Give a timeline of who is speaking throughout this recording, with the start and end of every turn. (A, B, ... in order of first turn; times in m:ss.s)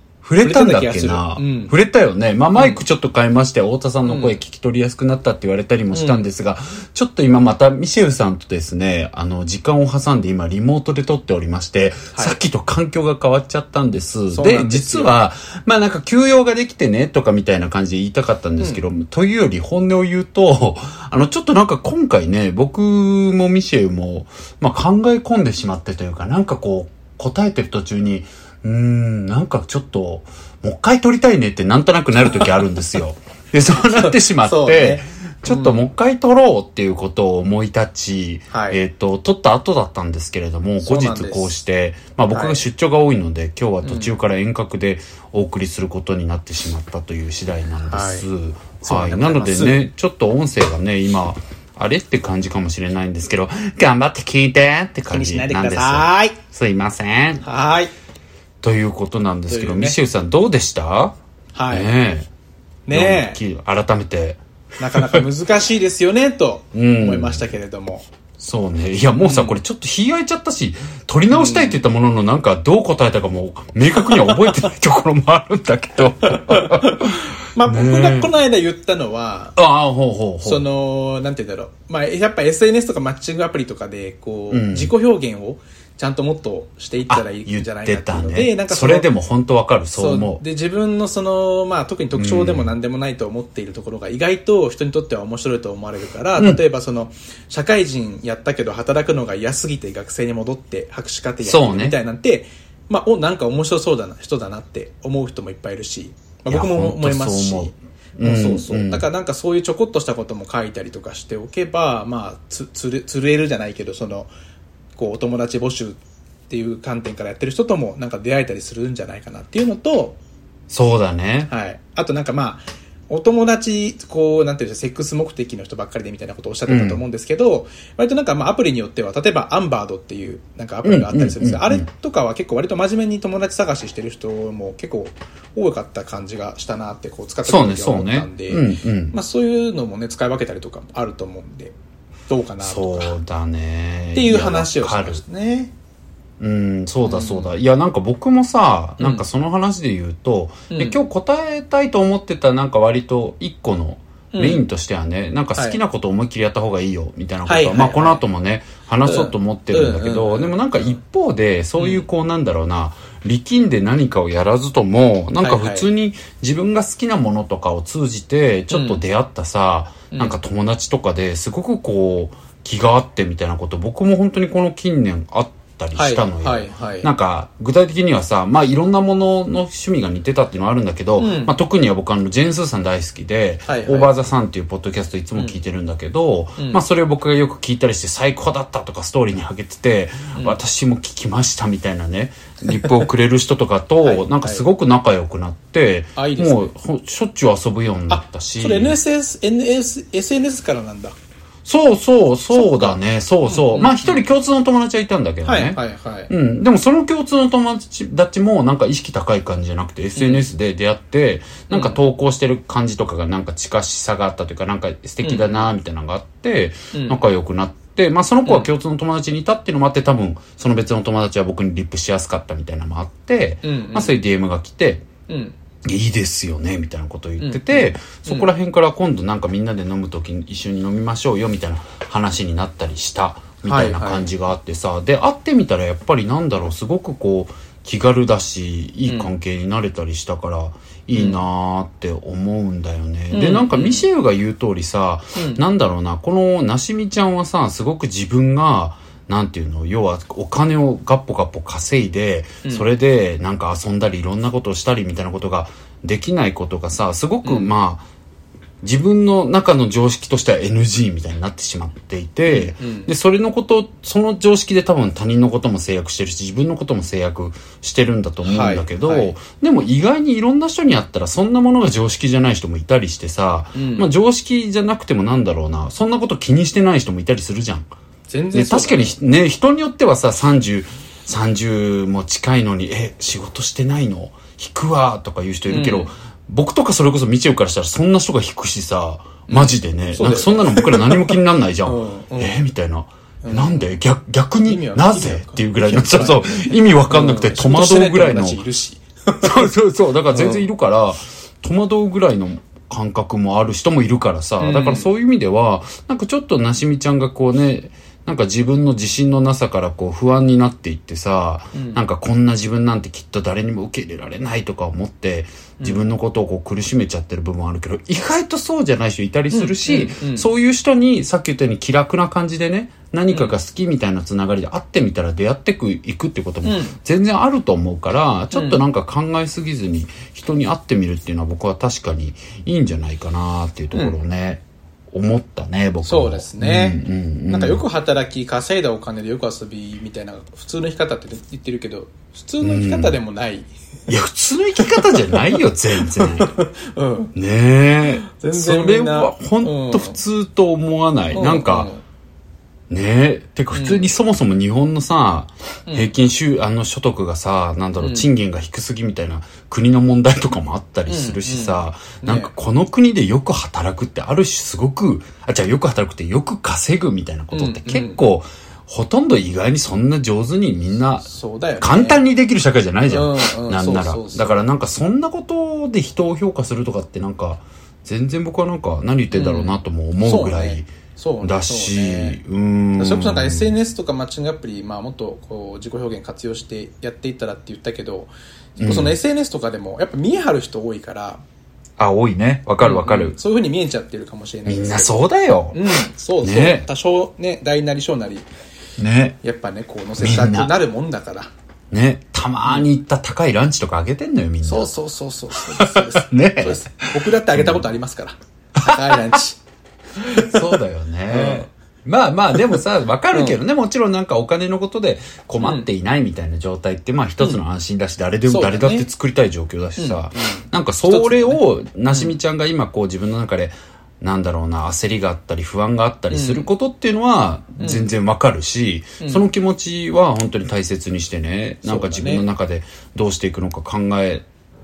0:00.2-0:57.4 A
0:00.4-0:01.7 B
0:02.6-0:02.8 B
0:04.1-0:04.4 B
0:05.9-0:06.3 B
0:14.3-0:15.1 B
0:33.8-0:35.8 B
0:38.5-0:38.8 B
0:40.8-0:41.5 B
0:42.3-0:42.6 B
0:43.8-0:44.1 B
0:47.9-0:48.3 B
0:48.8-0:49.8 B
0:55.1-0:56.4 B
0:57.4-0:57.9 B
0:58.6-1:01.2 A
0:59.5-1:00.0 B
1:01.6-1:01.9 B
1:01.7-1:02.3 A
1:02.9-1:03.4 B
1:02.9-1:04.4 A
1:04.8-1:08.1 B
1:04.9-1:05.2 A
1:06.7-1:07.5 A
1:08.4-1:18.3 A
1:09.2-1:09.6 B
1:11.3-1:11.8 B
1:16.2-1:19.6 B
1:19.6-1:20.6 A
1:20.4-1:29.1 B
1:24.5-1:24.9 A
1:27.1-1:30.4 A
1:29.9-1:54.3 B
1:32.2-1:32.7 A
1:36.4-1:36.6 A
1:41.4-1:42.0 A
1:46.5-1:49.1 A
1:55.0-2:00.2 B
2:00.7-2:01.5 A
2:01.5-2:21.8 B
2:06.7-2:07.0 A
2:10.8-2:11.9 A
2:17.4-2:19.2 A
2:22.3-2:23.2 B
2:22.6-2:25.2 A
2:24.1-2:25.7 B
2:26.4-3:19.0 A
2:27.1-2:27.5 B
2:29.0-2:29.2 B
2:30.7-2:31.0 B
2:34.3-2:34.6 B
2:35.6-2:35.8 B
2:37.5-2:38.2 B
2:39.0-2:41.0 B
2:41.8-2:42.0 B
2:45.4-2:45.9 B
2:48.7-2:49.0 B
2:50.1-2:50.4 B
2:55.9-2:57.1 B
3:01.2-3:01.6 B
3:03.7-3:04.1 B
3:06.6-3:06.8 B
3:10.3-3:10.6 B
3:14.0-3:14.6 B
3:16.2-3:16.7 B
3:18.1-3:21.2 B
3:21.6-3:45.0 A
3:22.5-3:24.2 B
3:25.4-3:26.3 B
3:30.2-3:30.4 B
3:31.7-3:32.0 B
3:35.2-3:35.7 B
3:36.9-3:37.2 B
3:43.6-3:44.2 B
3:45.3-3:45.6 B
3:45.8-4:18.1 A
3:47.4-3:48.5 B
3:53.7-3:54.3 B
3:59.1-3:59.3 B
4:01.1-4:01.4 B
4:03.3-4:04.1 B
4:05.4-4:05.6 B
4:17.4-4:17.7 B
4:18.8-4:37.9 A
4:22.5-4:23.1 B
4:28.4-4:29.3 B
4:33.8-4:34.1 B
4:38.3-4:39.1 B
4:38.5-4:58.6 A
4:45.7-4:46.1 B
4:49.5-4:52.6 B
4:53.4-4:53.9 B
4:54.6-4:59.7 B
4:59.4-5:37.8 A
5:00.3-5:00.7 B
5:04.6-5:05.1 B
5:11.7-5:12.0 B
5:19.5-5:20.5 B
5:23.3-5:23.6 B
5:26.6-5:27.0 B
5:28.5-5:28.8 B
5:36.0-5:43.7 B
5:42.6-5:43.2 A
5:44.1-5:46.5 A
5:44.8-5:47.3 B
5:47.4-5:51.9 A
5:48.2-5:50.2 B
5:51.3-5:52.0 B
5:52.9-6:23.8 A
5:53.7-5:54.1 B
5:55.9-5:56.1 B
5:58.0-5:58.3 B
6:01.1-6:02.5 B
6:07.5-6:08.2 B
6:11.3-6:12.2 B
6:13.1-6:14.6 B
6:19.3-6:22.4 B
6:23.0-6:31.4 B
6:28.8-6:29.2 A
6:32.0-6:33.4 A
6:32.8-6:38.5 B
6:34.6-6:35.8 A
6:36.4-6:36.9 A
6:39.0-6:39.4 A
6:39.4-6:41.5 B
6:40.2-6:40.7 A
6:41.9-6:44.9 A
6:44.6-6:49.6 B
6:45.7-6:47.9 A
6:48.8-6:49.3 A
6:50.2-6:50.6 B
6:50.3-7:14.4 A
6:51.3-6:51.7 B
6:53.3-6:53.6 B
6:55.6-6:55.9 B
6:58.5-6:59.1 B
7:00.0-7:02.4 B
7:06.3-7:06.7 B
7:07.8-7:08.1 B
7:09.2-7:09.5 B
7:11.8-7:12.4 B